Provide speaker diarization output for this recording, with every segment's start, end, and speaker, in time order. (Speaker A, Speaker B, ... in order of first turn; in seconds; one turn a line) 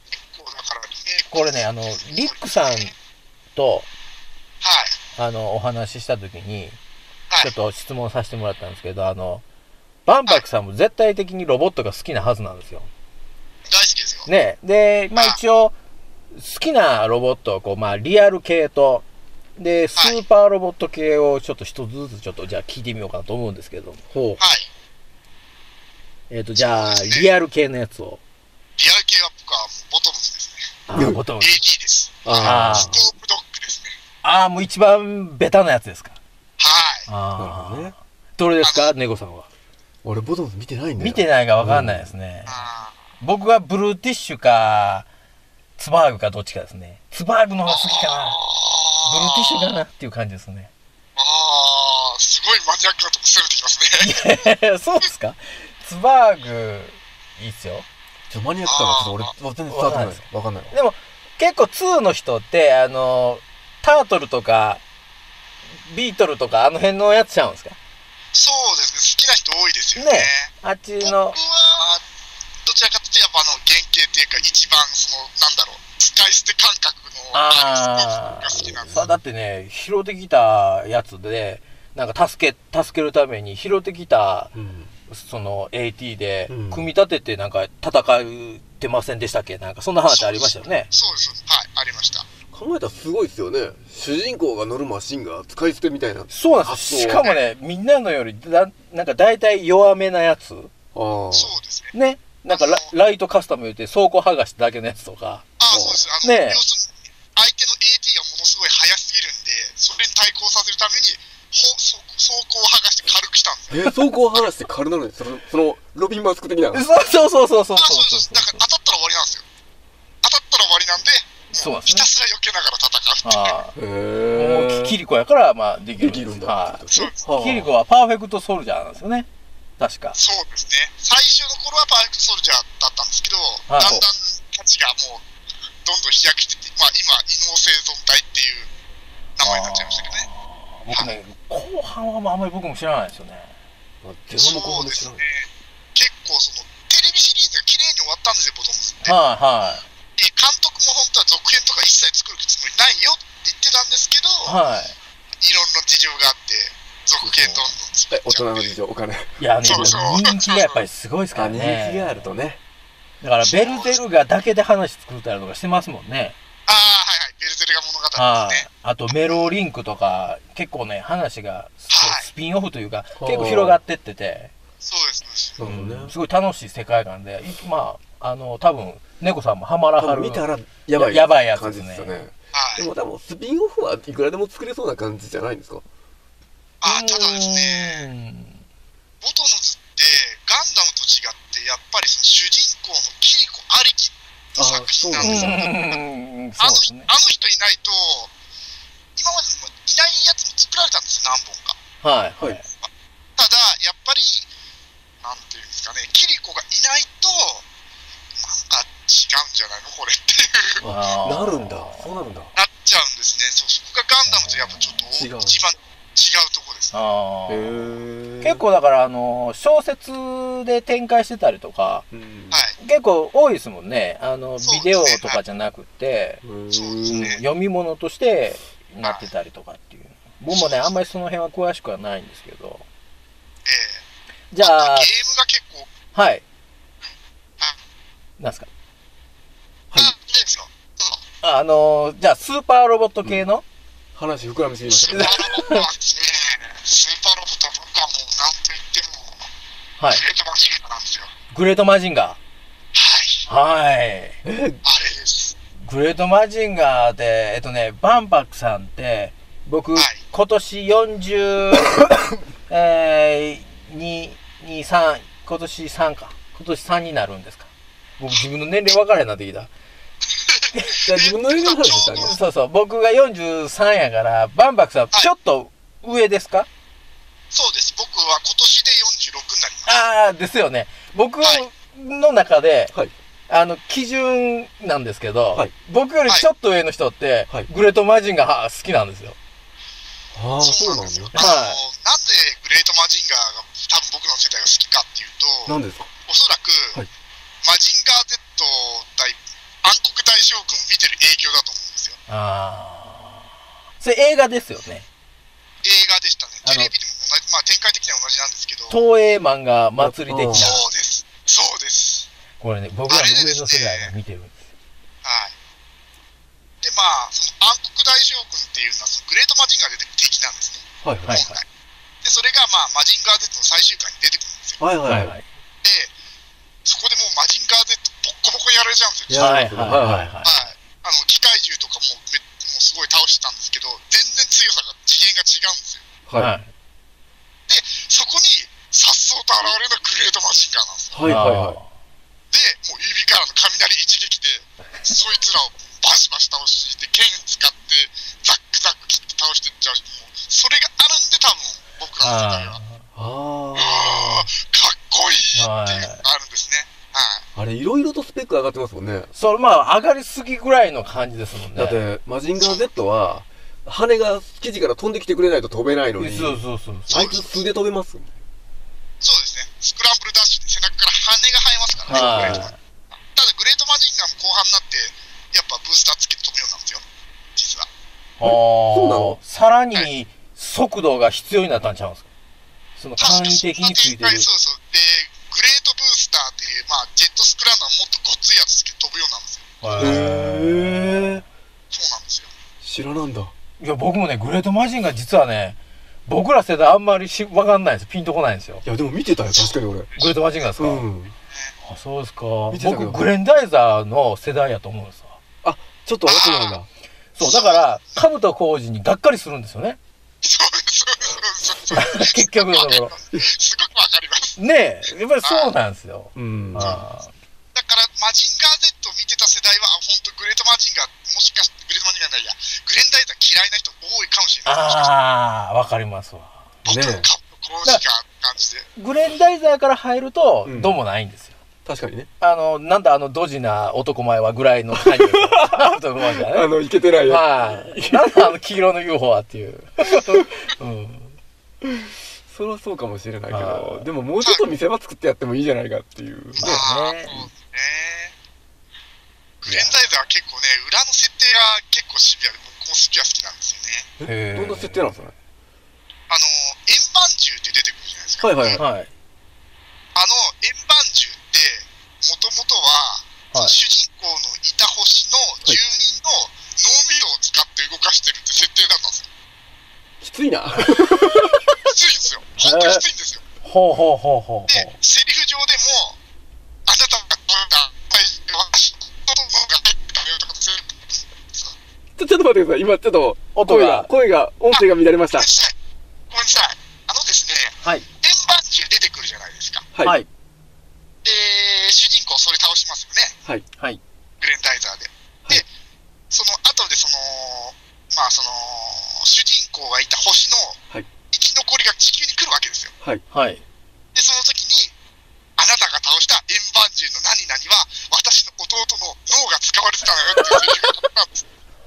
Speaker A: 0.3-2.9
Speaker B: 1.3-2.9
Speaker B: 3.5-3.9
Speaker A: 4.6-5.0
Speaker B: 5.2-6.8
Speaker B: 7.4-9.4
Speaker B: 10.1-12.9
Speaker A: 13.7-14.3
Speaker B: 14.3-15.7
Speaker B: 16.3-19.1
Speaker B: 19.6-24.4
Speaker A: 19.9-20.2
Speaker A: 24.4-24.7
Speaker B: 26.3-28.2
Speaker A: 26.6-27.3
Speaker A: 28.8-30.8
Speaker B: 30.9-31.6
Speaker C: 30.9-31.2
Speaker A: 31.4-34.0
Speaker C: 32.2-33.0
Speaker B: 32.4-32.9
Speaker B: 34.2-36.2
Speaker A: 36.6-37.1
Speaker B: 37.1-39.5
Speaker C: 37.4-37.9
Speaker A: 38.6-38.9
Speaker C: 40.0-42.1
Speaker B: 41.0-42.6
Speaker A: 42.5-42.9
Speaker B: 43.2-45.1
Speaker B: 45.8-48.4
Speaker A: 47.7-49.8
Speaker B: 49.0-50.7
Speaker A: 51.2-54.1
Speaker B: 54.0-57.9
Speaker C: 58.3-60.7
Speaker A: 58.7-59.3
Speaker B: 59.7-64.8
Speaker B: 65.8-67.8
Speaker A: 68.3-70.5
Speaker B: 70.0-71.4
Speaker A: 71.0-72.0
Speaker A: 72.7-79.1
Speaker B: 77.3-84.5
Speaker C: 78.9-79.2
Speaker C: 84.5-84.9
Speaker B: 85.1-90.9
Speaker C: 86.5-86.9
Speaker A: 90.1-92.3
Speaker C: 92.5-97.3
Speaker B: 96.3-100.7
Speaker C: 100.9-101.5
Speaker A: 101.3-101.9
Speaker B: 101.9-105.5
Speaker A: 102.5-102.9
Speaker A: 105.6-114.5
Speaker C: 105.7-106.1
Speaker B: 106.2-106.6
Speaker C: 113.7-116.9
Speaker B: 116.7-118.6
Speaker A: 117.8-119.5
Speaker A: 120.2-123.6
Speaker B: 121.5-122.1
Speaker B: 123.2-123.8
Speaker C: 123.8-125.0
Speaker B: 124.3-129.3
Speaker C: 126.0-127.7
Speaker A: 126.9-127.2
Speaker B: 129.8-130.2
Speaker A: 130.2-135.2
Speaker B: 133.7-134.1
Speaker A: 135.8-138.7
Speaker A: 139.4-140.3
Speaker B: 139.4-143.5
Speaker C: 144.0-145.2
Speaker A: 144.4-149.2
Speaker B: 149.0-149.8
Speaker A: 150.2-154.6
Speaker B: 154.5-155.0
Speaker A: 155.4-158.8
Speaker B: 157.2-157.7
Speaker C: 158.1-160.2
Speaker B: 159.4-162.3
Speaker A: 159.6-160.9
Speaker C: 161.3-162.6
Speaker B: 163.2-166.4
Speaker A: 163.4-164.0
Speaker A: 166.7-168.7
Speaker B: 168.2-174.5
Speaker A: 171.9-172.3
Speaker C: 173.2-173.8
Speaker A: 174.8-175.6
Speaker C: 175.6-176.2
Speaker B: 175.6-182.2
Speaker C: 180.0-185.8
Speaker A: 182.5-182.9
Speaker A: 186.8-188.1
Speaker B: 186.8-188.6
Speaker A: 189.2-196.0
Speaker C: 194.6-195.7
Speaker B: 195.2-197.1
Speaker A: 196.6-198.3
Speaker A: 199.2-201.8
Speaker B: 202.0-202.7
Speaker A: 202.8-204.5
Speaker A: 205.2-207.6
Speaker A: 208.4-210.8
Speaker C: 210.8-212.5
Speaker B: 210.9-212.1
Speaker A: 212.6-217.0
Speaker B: 214.2-215.1
Speaker C: 215.1-215.6
Speaker B: 216.9-222.1
Speaker C: 217.5-218.6
Speaker C: 222.1-222.7
Speaker A: 222.5-222.8
Speaker B: 222.8-226.4
Speaker A: 224.6-225.4
Speaker C: 226.4-227.3
Speaker A: 226.7-227.4
Speaker B: 227.1-232.8
Speaker A: 229.0-229.3
Speaker A: 230.5-230.9
Speaker A: 233.7-234.0
Speaker B: 234.5-235.1
Speaker A: 234.6-235.9
Speaker B: 236.1-236.4
Speaker B: 238.4-238.7
Speaker A: 240.0-241.2
Speaker B: 241.4-243.6
Speaker C: 244.2-245.3
Speaker A: 244.9-249.5
Speaker B: 245.2-245.8
Speaker A: 250.1-251.3
Speaker B: 251.5-252.4
Speaker A: 252.9-253.4
Speaker B: 253.5-254.4
Speaker C: 254.4-254.8
Speaker A: 254.8-255.5
Speaker B: 255.8-262.0
Speaker A: 259.9-260.2
Speaker B: 262.7-269.7
Speaker A: 270.4-272.4
Speaker C: 271.0-272.4
Speaker B: 272.1-276.7
Speaker A: 277.5-280.0
Speaker B: 279.9-282.9
Speaker B: 283.5-289.4
Speaker C: 290.3-291.4
Speaker A: 290.6-297.0
Speaker B: 291.3-291.8
Speaker C: 295.6-296.1
Speaker A: 297.6-302.2
Speaker B: 302.3-303.4
Speaker B: 304.0-305.1
Speaker A: 305.8-309.0
Speaker B: 306.6-306.9
Speaker B: 308.9-310.8
Speaker C: 310.0-310.7
Speaker A: 310.5-312.3
Speaker B: 312.6-314.6
Speaker A: 313.1-314.1
Speaker A: 315.2-315.5
Speaker A: 316.8-321.6
Speaker C: 321.0-321.4
Speaker B: 321.2-321.6
Speaker A: 322.2-324.8
Speaker C: 324.8-325.3
Speaker B: 325.1-325.4
Speaker A: 325.8-326.1
Speaker A: 326.8-329.5
Speaker C: 329.3-330.3
Speaker B: 329.4-330.6
Speaker A: 330.4-336.1
Speaker C: 336.3-336.5
Speaker B: 336.3-336.7
Speaker A: 337.7-341.2
Speaker C: 341.1-341.8
Speaker B: 341.2-341.9
Speaker A: 342.5-352.8
Speaker B: 352.2-353.0
Speaker C: 353.1-354.2
Speaker A: 353.8-357.4
Speaker B: 355.6-356.2
Speaker C: 357.6-359.3
Speaker B: 359.3-362.0
Speaker C: 361.8-368.3
Speaker B: 366.2-367.4
Speaker A: 367.1-367.5
Speaker A: 369.2-372.7
Speaker C: 372.1-372.7
Speaker B: 372.1-372.8
Speaker A: 373.3-377.0
Speaker A: 377.6-377.9
Speaker B: 378.4-382.2
Speaker C: 378.4-379.4
Speaker B: 383.0-384.5
Speaker A: 383.2-390.3
Speaker B: 389.8-391.4
Speaker C: 390.0-391.4
Speaker A: 391.9-392.5
Speaker C: 392.8-393.5
Speaker B: 393.8-398.8
Speaker C: 398.8-400.1
Speaker A: 399.6-400.3
Speaker B: 400.2-401.0
Speaker C: 400.8-401.3
Speaker B: 401.8-405.4
Speaker C: 402.7-403.2
Speaker C: 405.6-406.9
Speaker A: 406.2-406.8
Speaker B: 407.3-410.0
Speaker A: 407.4-408.0
Speaker A: 410.4-414.6
Speaker B: 411.9-413.1
Speaker B: 414.6-417.3
Speaker A: 415.4-415.7
Speaker C: 416.4-417.0
Speaker A: 416.8-417.0
Speaker A: 417.8-425.1
Speaker B: 424.6-426.6
Speaker A: 426.8-428.9
Speaker C: 426.9-427.3
Speaker B: 428.9-431.5
Speaker C: 430.6-431.0
Speaker C: 431.8-432.3
Speaker B: 432.4-436.7
Speaker C: 435.0-438.5
Speaker B: 437.2-441.4
Speaker C: 442.5-446.8
Speaker B: 443.5-444.1
Speaker A: 444.4-444.7
Speaker A: 446.6-448.3
Speaker B: 446.6-447.5
Speaker A: 449.6-454.1
Speaker B: 449.7-449.9
Speaker C: 454.2-455.3
Speaker B: 454.2-455.3
Speaker A: 456.3-458.8
Speaker C: 458.4-458.8
Speaker B: 458.8-459.1
Speaker A: 460.1-469.2
Speaker C: 470.2-471.6
Speaker A: 471.8-473.4
Speaker B: 472.6-473.0
Speaker B: 473.6-474.9
Speaker A: 474.7-476.1
Speaker A: 476.9-481.8
Speaker C: 482.2-485.5
Speaker B: 483.5-484.1
Speaker A: 485.4-485.7
Speaker A: 486.3-489.9
Speaker B: 487.8-488.1
Speaker A: 491.2-493.4
Speaker A: 494.4-495.7
Speaker A: 496.3-500.8
Speaker A: 501.3-502.9
Speaker B: 503.3-503.6
Speaker A: 504.1-504.9
Speaker A: 505.6-511.4